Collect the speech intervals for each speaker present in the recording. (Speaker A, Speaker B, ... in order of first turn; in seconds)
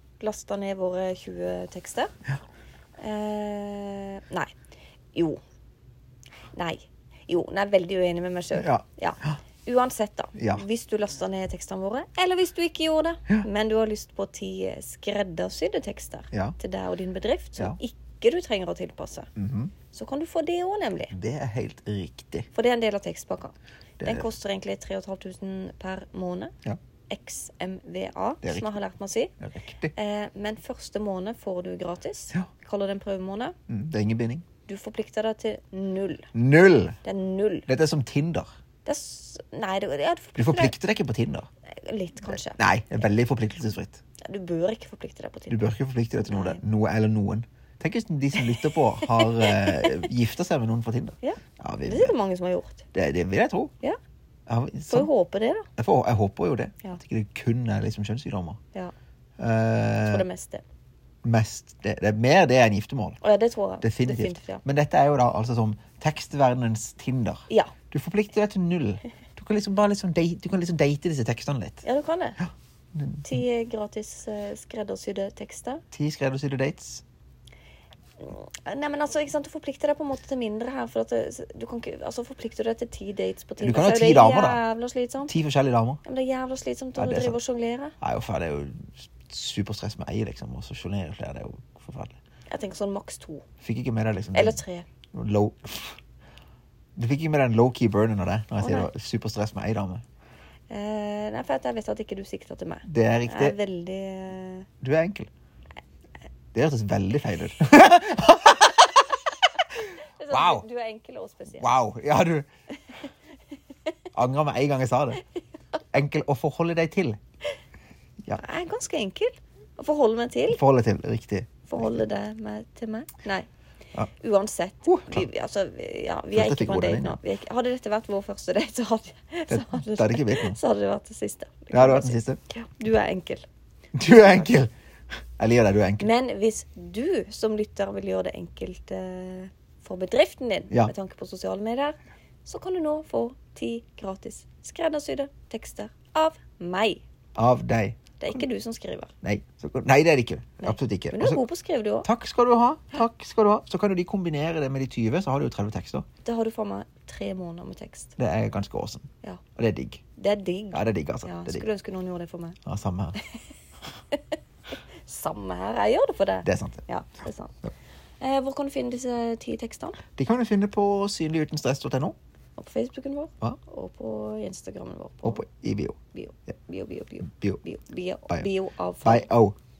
Speaker A: 0.2-2.1, 3.0-4.5, 5.1-5.4, 6.5-19.3, 19.9-21.1, 22.5-26.5, 27.1-29.3, 29.9-33.5, 34.7-36.3, 37.0-37.7, 38.8-40.7, 41.7-42.6, 44.2-45.6, 46.2-46.6, 48.3-50.1, 51.2-52.8, 54.9-55.7, 60.0-60.6, 63.2-64.6, 71.8-72.4, 73.2-75.8, 78.2-85.3, 86.0-87.9, 92.5-93.4, 94.3-94.9, 98.6-98.9, 100.7-104.7, 109.8-111.7, 112.8-113.1, 118.4-120.6, 121.7-123.5, 124.1-133.4, 136.0-147.0, 148.2-149.1, 150.6-152.1, 156.2-158.2, 160.2-162.6, 165.0-167.6, 168.2-170.0, 172.6-175.4, 176.1-179.3
Speaker B: 8.5-9.4, 10.3-10.6, 16.3-16.6, 19.4-19.7, 21.1-22.5, 24.0-24.3, 28.4-28.7, 29.4-29.9, 33.7-34.4, 36.3-37.0, 37.7-38.5, 40.4-41.5, 42.2-44.0, 45.5-52.1, 52.9-53.7, 54.5-55.1, 55.8-58.6, 59.4-60.2, 61.2-63.2, 63.8-71.8, 72.4-73.4, 75.9-77.0, 83.6-84.6, 85.3-86.0, 86.9-87.4, 88.0-92.2, 93.6-94.6, 95.1-96.0, 97.0-100.0, 102.8-103.5, 104.8-105.3, 106.5-109.1, 110.3-110.7, 111.6-112.5, 114.1-115.2, 115.9-117.2, 120.5-122.0, 124.8-125.3, 126.3-127.2, 129.5-130.6, 131.7-132.4, 133.9-134.7, 135.4-136.1, 147.3-148.4, 149.2-151.4, 152.0-156.1, 158.2-160.0, 160.7-161.7, 162.6-163.2, 166.4-166.8, 170.2-172.2, 175.2-176.0, 177.3-177.6, 179.0-179.5